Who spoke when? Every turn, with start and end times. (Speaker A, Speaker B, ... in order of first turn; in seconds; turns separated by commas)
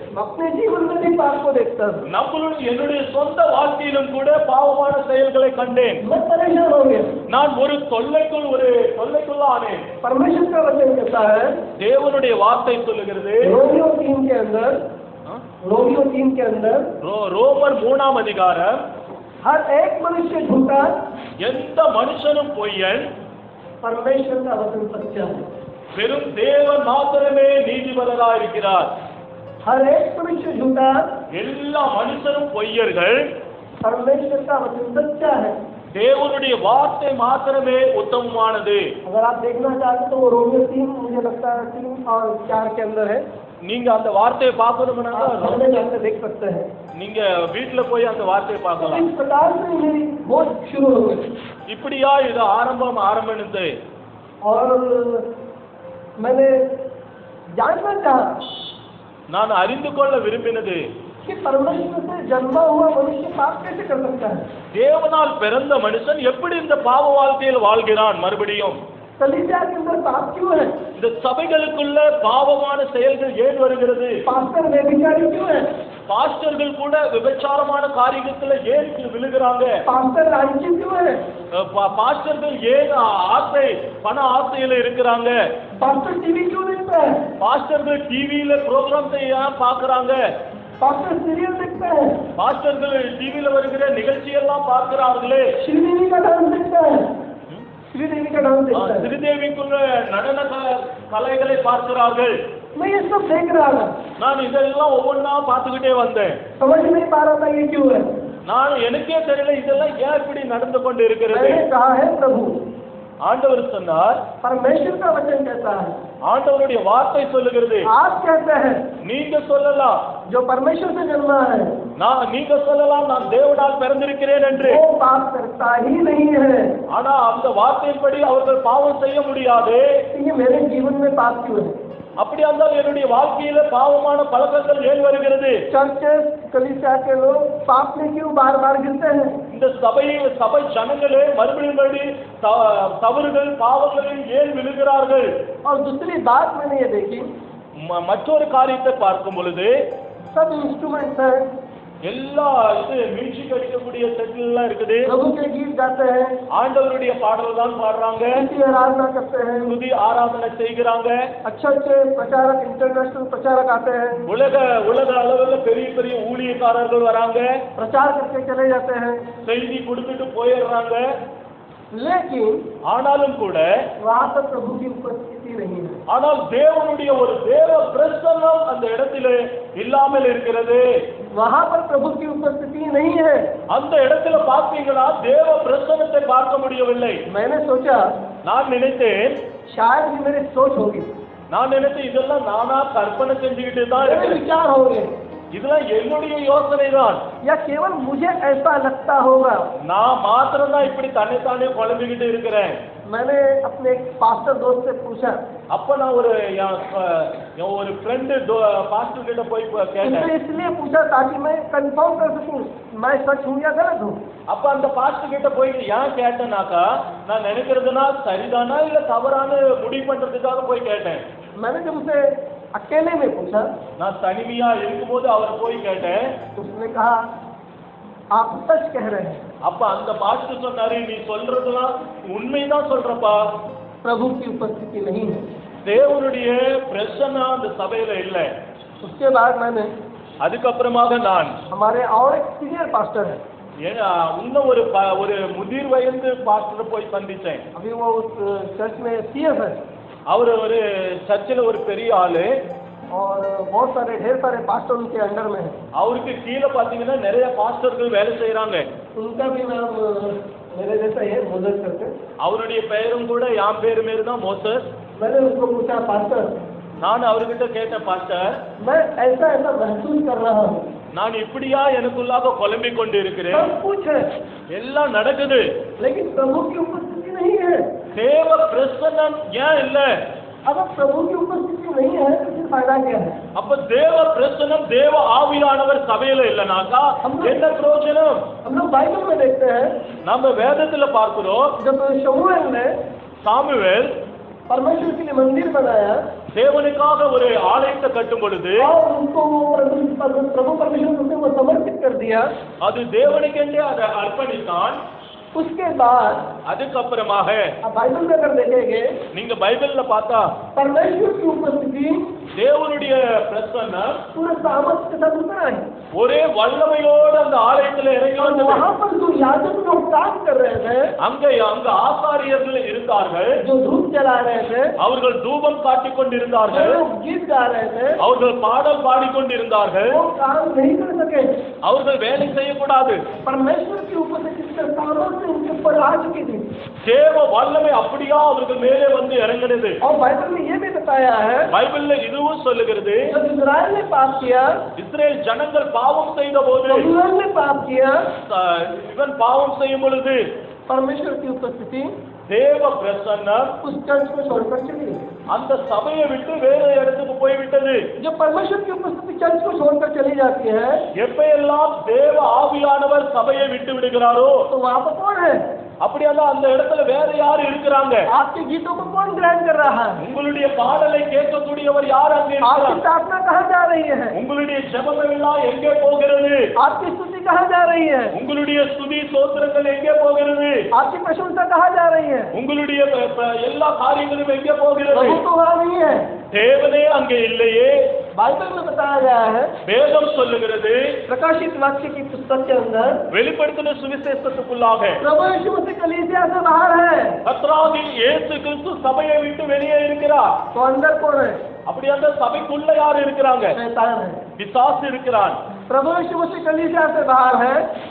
Speaker A: 0.1-2.1, Speaker B: 2.0-6.0, Speaker A: 6.0-7.2, Speaker B: 7.3-9.8, Speaker A: 10.0-11.6, Speaker B: 11.8-13.6, Speaker A: 13.4-14.8, Speaker A: 15.6-16.9, Speaker B: 17.0-18.8, Speaker A: 19.4-21.0, Speaker B: 21.4-23.1, Speaker A: 23.8-25.5, Speaker B: 25.9-28.9, Speaker A: 29.6-31.2, Speaker B: 31.3-33.3, Speaker A: 33.8-35.6, Speaker B: 35.9-39.0, Speaker A: 39.0-43.2, Speaker B: 43.6-45.6, Speaker A: 45.1-46.7, Speaker B: 46.9-49.1, Speaker A: 48.8-51.2, Speaker B: 51.7-53.8, Speaker A: 54.4-55.3, Speaker A: 56.2-56.6, Speaker A: 57.6-58.4, Speaker B: 59.3-60.9, Speaker A: 61.2-64.5, Speaker B: 64.7-68.8, Speaker A: 69.2-70.8, Speaker B: 71.0-74.2, Speaker A: 74.2-75.7, Speaker B: 76.1-79.8, Speaker A: 79.8-81.2, Speaker B: 81.5-85.5, Speaker A: 85.8-87.3, Speaker B: 87.4-90.3, Speaker A: 90.8-92.2, Speaker B: 92.3-95.5, Speaker A: 95.6-97.1, Speaker A: 97.9-99.1, Speaker B: 98.7-102.3, Speaker A: 102.8-104.0, Speaker B: 104.2-106.4, Speaker A: 106.6-108.2, Speaker B: 108.4-111.6, Speaker A: 111.3-112.6, Speaker B: 113.2-114.2, Speaker A: 114.4-116.0, Speaker B: 116.2-117.9, Speaker A: 117.8-118.9, Speaker B: 119.0-120.1, Speaker A: 120.3-121.8, Speaker B: 122.0-124.8, Speaker A: 124.6-126.7, Speaker B: 126.9-130.0, Speaker A: 130.1-131.8, Speaker B: 132.2-135.6, Speaker A: 135.7-139.4, Speaker B: 139.5-145.3, Speaker A: 145.6-147.3, Speaker B: 147.8-149.9, Speaker A: 150.3-151.5, Speaker B: 152.0-155.1, Speaker A: 155.1-156.4, Speaker B: 156.5-158.5, Speaker A: 158.3-159.7, Speaker B: 159.7-161.3, Speaker A: 161.4-164.2, Speaker B: 164.3-167.6, Speaker A: 167.8-169.3, Speaker B: 169.4-171.1, Speaker A: 171.9-172.7, Speaker B: 172.8-173.9, Speaker A: 174.0-176.0, Speaker B: 176.1-180.9, Speaker A: 181.3-183.5, Speaker B: 183.7-187.2, Speaker A: 187.2-188.1, Speaker B: 188.4-189.4, Speaker A: 189.7-191.1, Speaker B: 191.5-194.4, Speaker A: 194.0-195.1, Speaker B: 195.5-197.2, Speaker A: 197.4-199.7, Speaker B: 199.8-202.8, Speaker A: 203.1-205.4, Speaker B: 205.7-210.3, Speaker A: 210.0-214.2, Speaker B: 214.5-221.2, Speaker A: 221.6-223.7, Speaker B: 224.0-226.4, Speaker A: 226.6-227.3, Speaker A: 228.3-229.5, Speaker B: 229.6-233.6, Speaker A: 234.0-235.5, Speaker B: 235.8-238.6, Speaker A: 239.0-239.9, Speaker B: 240.4-241.6, Speaker A: 241.7-243.4, Speaker B: 243.8-247.6, Speaker A: 247.7-249.8, Speaker B: 250.3-252.6, Speaker A: 253.1-255.8, Speaker B: 255.9-258.9, Speaker A: 259.1-262.1, Speaker B: 262.4-264.9, Speaker A: 265.2-266.6, Speaker B: 267.0-268.6, Speaker A: 268.8-270.9, Speaker B: 271.1-273.7, Speaker A: 273.5-274.3, Speaker B: 274.7-275.8, Speaker A: 276.0-277.9, Speaker B: 278.1-280.2, Speaker A: 280.6-283.4, Speaker B: 283.5-288.5, Speaker A: 287.2-287.6, Speaker A: 288.6-290.0, Speaker B: 290.2-291.8, Speaker A: 291.8-293.0, Speaker B: 293.4-294.1, Speaker A: 294.7-296.3, Speaker B: 296.5-298.9, Speaker A: 298.8-302.5, Speaker B: 302.8-305.0, Speaker A: 305.5-306.5, Speaker B: 306.6-307.8, Speaker A: 307.8-309.2, Speaker B: 309.3-310.6, Speaker A: 310.8-312.3, Speaker B: 312.5-314.2, Speaker A: 314.3-315.9, Speaker B: 316.1-318.9, Speaker A: 318.4-321.1, Speaker B: 321.2-323.6, Speaker A: 323.6-325.0, Speaker B: 325.0-327.0, Speaker A: 326.7-328.2, Speaker B: 328.2-330.2, Speaker A: 330.1-331.5, Speaker B: 331.8-333.3, Speaker A: 333.4-336.7, Speaker B: 337.0-340.0, Speaker A: 340.0-341.7, Speaker B: 341.7-343.3, Speaker A: 343.2-344.9, Speaker B: 344.9-347.1, Speaker A: 346.9-348.3, Speaker B: 348.4-350.5, Speaker A: 350.9-352.1, Speaker B: 352.5-353.8, Speaker A: 353.8-355.3, Speaker B: 355.5-358.1, Speaker A: 358.2-361.0, Speaker B: 361.1-364.7, Speaker A: 364.7-365.7, Speaker B: 366.0-368.3, Speaker A: 368.3-370.2, Speaker B: 370.2-373.0, Speaker A: 372.6-374.4, Speaker B: 374.3-376.7, Speaker A: 376.8-378.3, Speaker B: 378.3-380.9, Speaker A: 380.9-382.5, Speaker B: 382.5-385.4, Speaker A: 385.1-386.3, Speaker B: 386.5-388.2, Speaker A: 388.3-389.8, Speaker B: 389.8-391.2, Speaker A: 391.3-393.3, Speaker B: 393.3-395.2, Speaker A: 395.2-397.4, Speaker B: 397.4-400.6, Speaker A: 400.7-401.6, Speaker B: 401.9-403.8, Speaker A: 403.7-404.4, Speaker B: 404.6-405.6, Speaker A: 405.9-407.9